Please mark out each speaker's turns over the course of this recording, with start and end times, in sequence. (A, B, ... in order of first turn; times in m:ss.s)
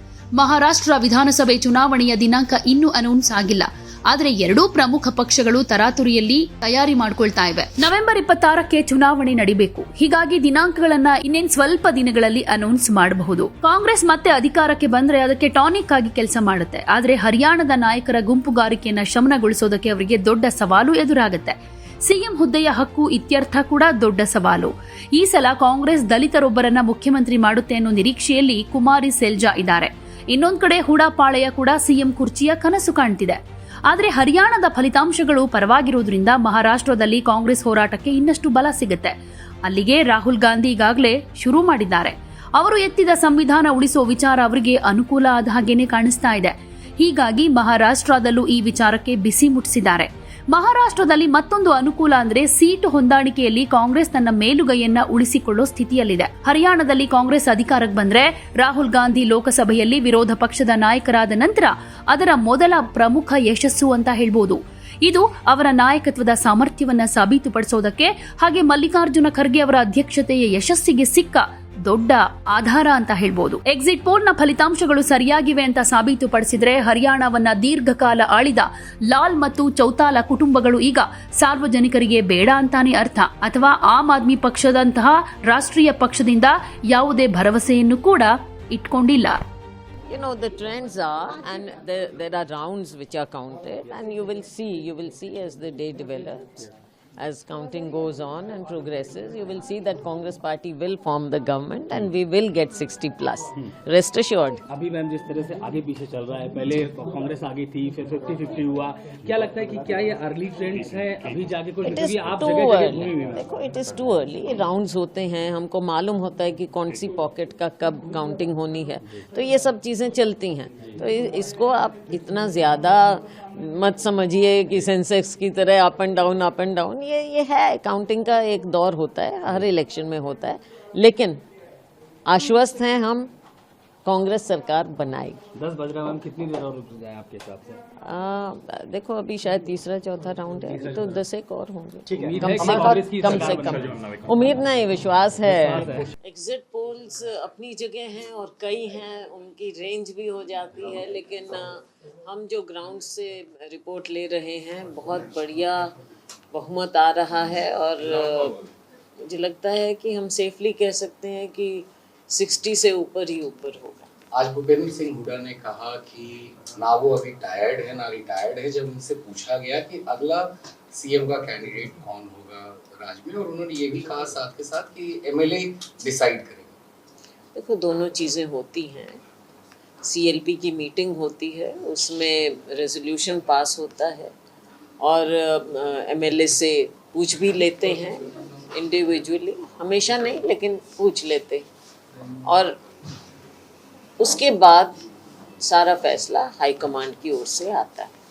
0:00.4-1:29.4 A
1:30.1-1:44.6 B
1:44.7-1:53.4 C
1:51.8-2:11.4 B
2:12.3-2:13.3 B
2:14.0-2:15.4 B
2:15.5-2:17.8 C
2:18.0-2:35.9 B
2:20.7-2:21.2 C
2:22.1-2:24.6 C
2:25.4-2:26.1 C
2:36.5-2:38.6 B
2:39.2-2:44.0 B
2:44.3-2:56.7 D
2:57.5-2:59.2 B
3:00.0-3:04.3 B
3:05.0-3:11.6 B
3:12.4-3:12.8 B
3:14.2-3:15.0 B
3:15.6-3:18.1 B